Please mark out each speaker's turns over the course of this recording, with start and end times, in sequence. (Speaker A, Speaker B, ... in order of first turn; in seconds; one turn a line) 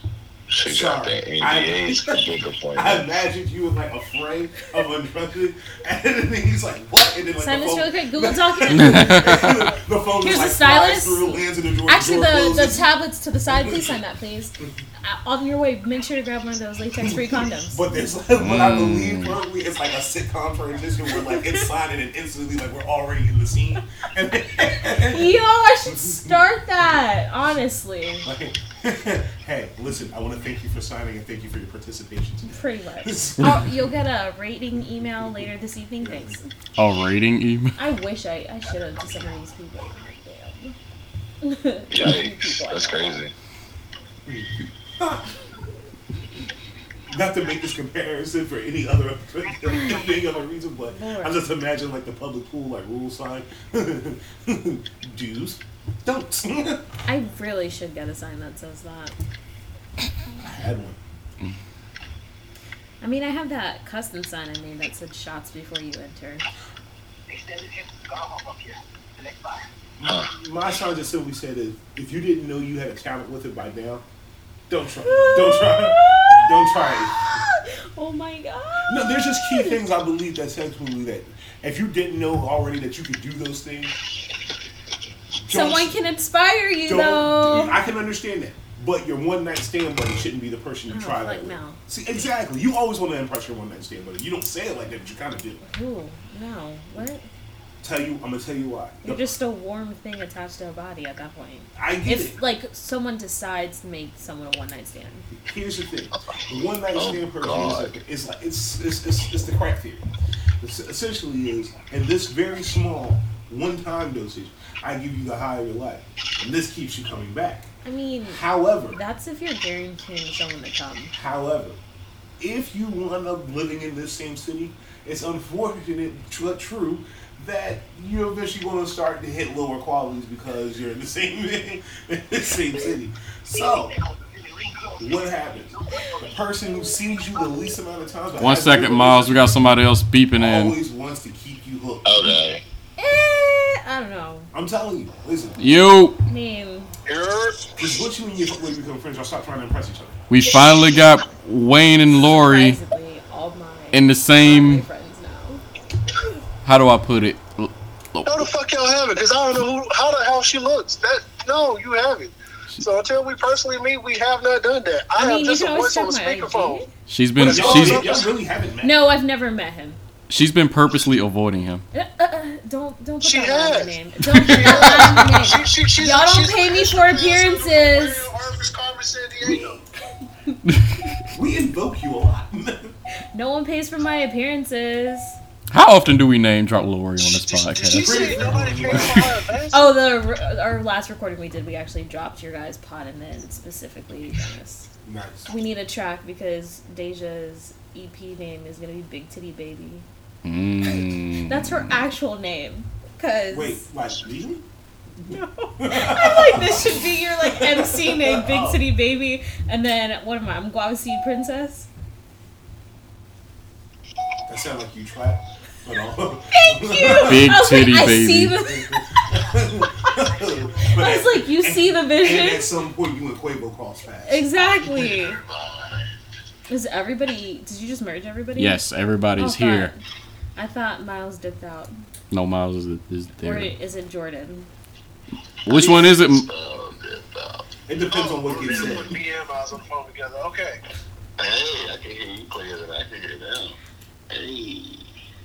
Speaker A: 0.5-3.2
Speaker B: 0.6-12.9
Speaker C: 7.4-9.6
Speaker C: 10.2-17.8
Speaker B: 13.5-14.0
Speaker B: 17.0-26.9
Speaker D: 18.4-19.4
Speaker C: 21.2-21.6
Speaker C: 25.0-28.3
Speaker B: 28.2-33.9
Speaker C: 32.5-36.5
Speaker B: 36.0-36.4
Speaker D: 36.8-37.8
Speaker C: 37.8-40.8
Speaker C: 41.4-43.2
Speaker A: 41.9-43.3
Speaker B: 44.3-45.3
Speaker B: 47.1-56.9
Speaker C: 50.8-51.5
Speaker C: 57.1-59.2
Speaker B: 60.4-61.0
Speaker C: 63.0-66.5
Speaker E: 67.3-68.7
Speaker B: 70.0-74.0
Speaker A: 70.0-70.3
Speaker B: 74.7-77.3
Speaker C: 75.0-79.9
Speaker B: 78.9-84.0
Speaker B: 85.4-86.0
Speaker C: 85.5-87.8
Speaker B: 86.9-95.6
Speaker C: 90.9-91.8
Speaker C: 95.6-97.3
Speaker B: 97.8-99.3
Speaker C: 99.0-105.3
Speaker B: 101.8-102.4
Speaker B: 105.4-110.1
Speaker A: 106.9-107.9
Speaker B: 110.6-117.7
Speaker C: 117.8-121.1
Speaker B: 118.3-119.0
Speaker B: 121.1-121.8
Speaker B: 122.4-133.9
Speaker B: 135.0-139.7
Speaker D: 138.4-140.8
Speaker B: 140.4-142.4
Speaker A: 142.1-142.6
Speaker C: 143.0-144.5
Speaker B: 144.5-145.6
Speaker D: 145.6-146.2
Speaker C: 146.3-146.9
Speaker E: 147.1-147.7
Speaker B: 147.8-150.2
Speaker D: 150.3-152.8
Speaker C: 152.3-155.6
Speaker D: 153.9-154.8
Speaker D: 156.6-158.5
Speaker E: 158.2-166.8
Speaker C: 165.2-166.9
Speaker D: 167.1-168.3
Speaker B: 167.4-169.1
Speaker E: 167.4-168.3
Speaker C: 168.8-170.0
Speaker D: 170.3-171.8
Speaker C: 171.9-178.3
Speaker E: 173.2-179.8
Speaker D: 174.4-174.9
Speaker B: 179.4-179.8
Speaker B: 181.3-182.9
Speaker C: 183.3-185.4
Speaker D: 185.7-188.5
Speaker E: 187.5-190.0
Speaker B: 187.9-189.3
Speaker C: 189.7-194.9
Speaker B: 195.0-195.5
Speaker C: 195.5-200.1
Speaker D: 200.4-201.9
Speaker C: 201.4-203.8
Speaker B: 203.5-204.7
Speaker C: 205.3-211.9
Speaker B: 205.8-208.8
Speaker B: 214.5-217.6
Speaker C: 216.5-219.1
Speaker D: 217.1-218.6
Speaker B: 218.7-224.5
Speaker C: 220.9-222.7
Speaker C: 224.3-225.4
Speaker A: 224.8-226.1
Speaker C: 226.7-228.8
Speaker D: 228.6-229.9
Speaker C: 229.4-230.0
Speaker C: 230.6-231.9
Speaker D: 232.3-233.7
Speaker C: 233.4-234.7
Speaker D: 235.7-236.5
Speaker A: 235.7-237.7
Speaker B: 237.9-239.2
Speaker E: 238.0-240.8
Speaker A: 241.4-243.8
Speaker A: 244.3-245.1